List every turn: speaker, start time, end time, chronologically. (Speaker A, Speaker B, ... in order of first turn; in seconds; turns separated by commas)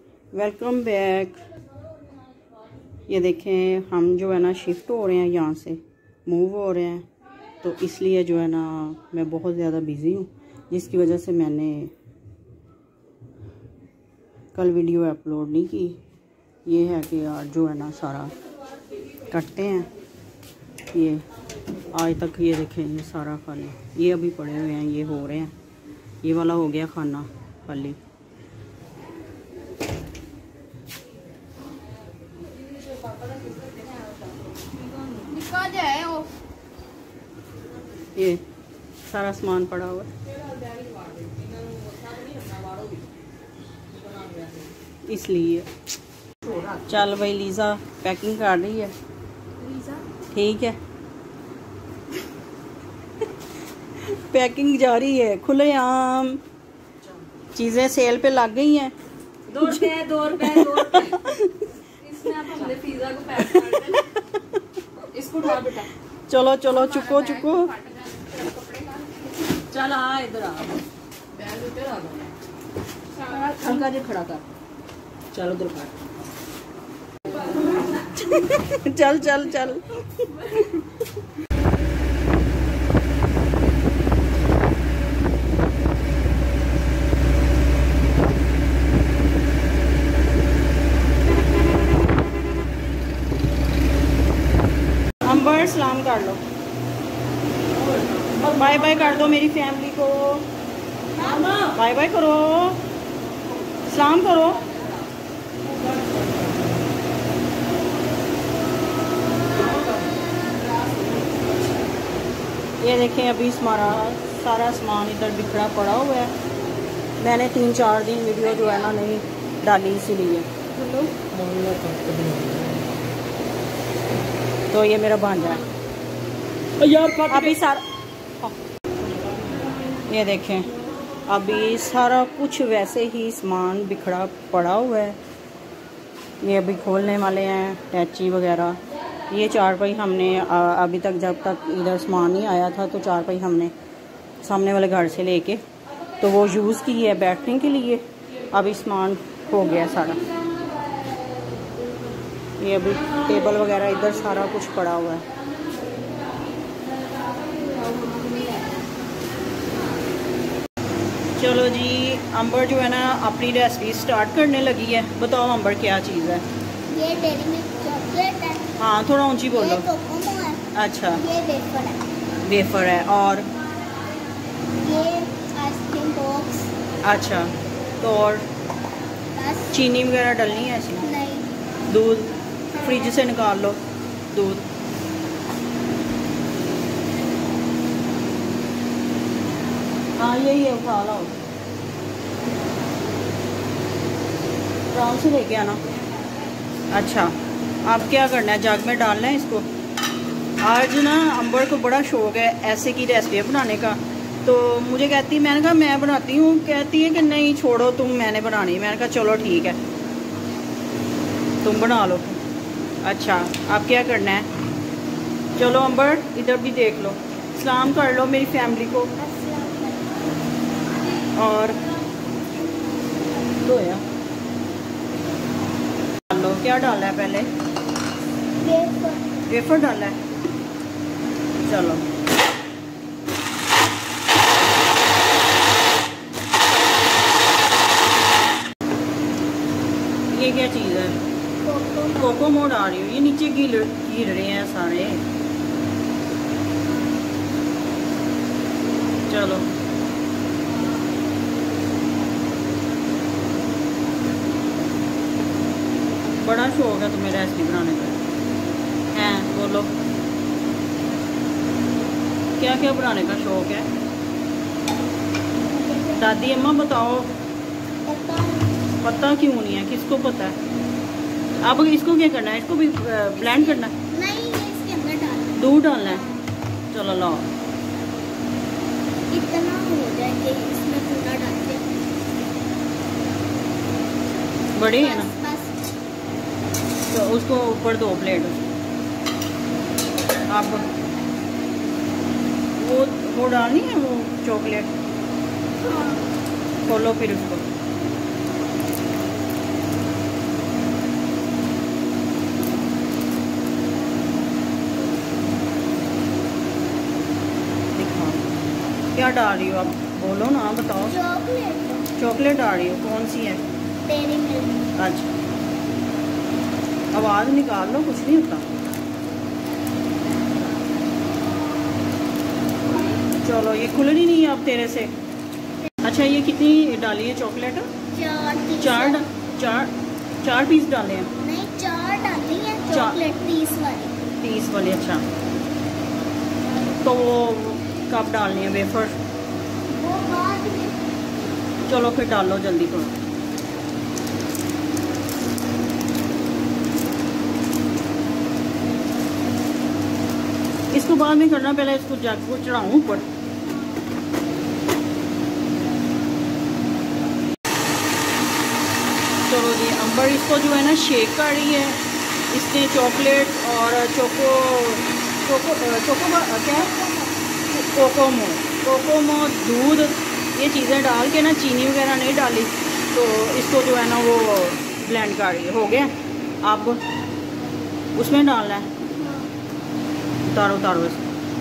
Speaker A: 0.3-1.4, Speaker A: 3.1-7.1, Speaker A: 7.6-11.9, Speaker A: 14.6-16.0, Speaker A: 16.7-18.3, Speaker A: 19.3-19.9, Speaker A: 20.9-21.2, Speaker A: 21.9-25.5, Speaker A: 26.2-28.0, Speaker B: 32.9-34.2, Speaker B: 34.8-36.2, Speaker C: 35.5-36.2, Speaker A: 38.1-38.4, Speaker A: 39.1-40.1, Speaker B: 40.6-43.1, Speaker B: 43.9-44.7, Speaker A: 45.1-45.7, Speaker A: 46.8-48.9, Speaker B: 49.7-50.0, Speaker A: 50.3-50.8, Speaker A: 54.0-56.4, Speaker A: 57.5-58.9, Speaker B: 59.5-61.3, Speaker A: 60.3-61.5, Speaker B: 62.0-64.1, Speaker A: 63.6-64.0, Speaker B: 65.0-65.9, Speaker A: 66.3-67.7, Speaker B: 66.9-70.8, Speaker B: 71.3-72.3, Speaker B: 73.2-74.4, Speaker B: 75.3-75.9, Speaker A: 78.2-80.7, Speaker A: 95.2-96.4, Speaker A: 98.3-100.5, Speaker C: 101.1-101.6, Speaker A: 101.6-102.8, Speaker A: 103.9-104.7, Speaker B: 109.6-109.9, Speaker A: 112.8-116.3, Speaker A: 117.2-120.5, Speaker B: 120.8-122.8, Speaker A: 124.7-125.6, Speaker B: 126.8-127.5, Speaker A: 127.3-127.8, Speaker A: 130.1-130.7, Speaker A: 131.3-135.2, Speaker A: 136.4-138.8, Speaker A: 139.3-143.7, Speaker A: 144.4-145.6, Speaker A: 146.2-150.2, Speaker A: 152.6-155.2, Speaker B: 157.7-158.6, Speaker A: 161.4-166.4, Speaker C: 166.9-168.7, Speaker A: 168.8-169.9, Speaker C: 169.5-170.6, Speaker A: 170.7-171.2, Speaker C: 171.1-172.0, Speaker A: 172.4-173.5, Speaker C: 174.8-176.7, Speaker A: 177.0-178.4, Speaker C: 179.3-179.8, Speaker A: 179.7-181.1, Speaker C: 181.0-181.5, Speaker A: 181.9-183.8, Speaker A: 184.3-184.7, Speaker A: 190.2-191.3, Speaker A: 194.9-195.8, Speaker A: 196.9-197.3, Speaker A: 197.8-199.7, Speaker A: 200.6-209.8, Speaker A: 211.6-212.4, Speaker A: 213.0-214.5, Speaker A: 215.6-219.1, Speaker C: 219.2-220.1, Speaker A: 221.3-221.8, Speaker A: 223.6-224.0, Speaker A: 226.3-227.5, Speaker C: 228.6-229.3, Speaker A: 229.5-230.2, Speaker A: 231.6-232.1, Speaker A: 240.3-241.2, Speaker C: 241.6-242.5, Speaker A: 242.2-245.2, Speaker A: 249.3-249.7, Speaker A: 256.4-258.2, Speaker A: 259.1-259.9, Speaker A: 262.6-263.9, Speaker C: 265.6-266.4, Speaker A: 266.2-267.3, Speaker C: 268.1-268.7, Speaker A: 269.0-270.6, Speaker A: 271.6-273.9, Speaker C: 273.4-275.6, Speaker A: 275.6-276.2, Speaker A: 276.9-277.5, Speaker C: 279.3-282.0, Speaker A: 284.8-285.3, Speaker C: 285.0-285.8, Speaker A: 287.1-288.6, Speaker A: 290.5-290.9, Speaker A: 292.8-294.9, Speaker A: 296.8-297.6, Speaker A: 307.9-308.4, Speaker A: 309.1-311.2, Speaker C: 311.1-312.1, Speaker A: 312.2-313.6, Speaker C: 314.1-314.9, Speaker A: 315.0-315.3, Speaker A: 317.1-318.6, Speaker A: 323.4-325.1, Speaker A: 326.0-327.9, Speaker C: 328.1-329.2, Speaker A: 328.8-329.9, Speaker A: 330.4-331.3, Speaker C: 331.4-334.1, Speaker A: 332.9-333.2, Speaker A: 334.4-335.2, Speaker A: 337.0-339.2, Speaker C: 339.9-341.0, Speaker A: 341.9-343.1, Speaker A: 350.9-353.3, Speaker A: 359.4-362.0, Speaker A: 362.5-366.9, Speaker C: 366.7-367.4, Speaker A: 367.7-376.1, Speaker A: 376.6-377.0, Speaker A: 378.1-378.9, Speaker A: 380.4-381.3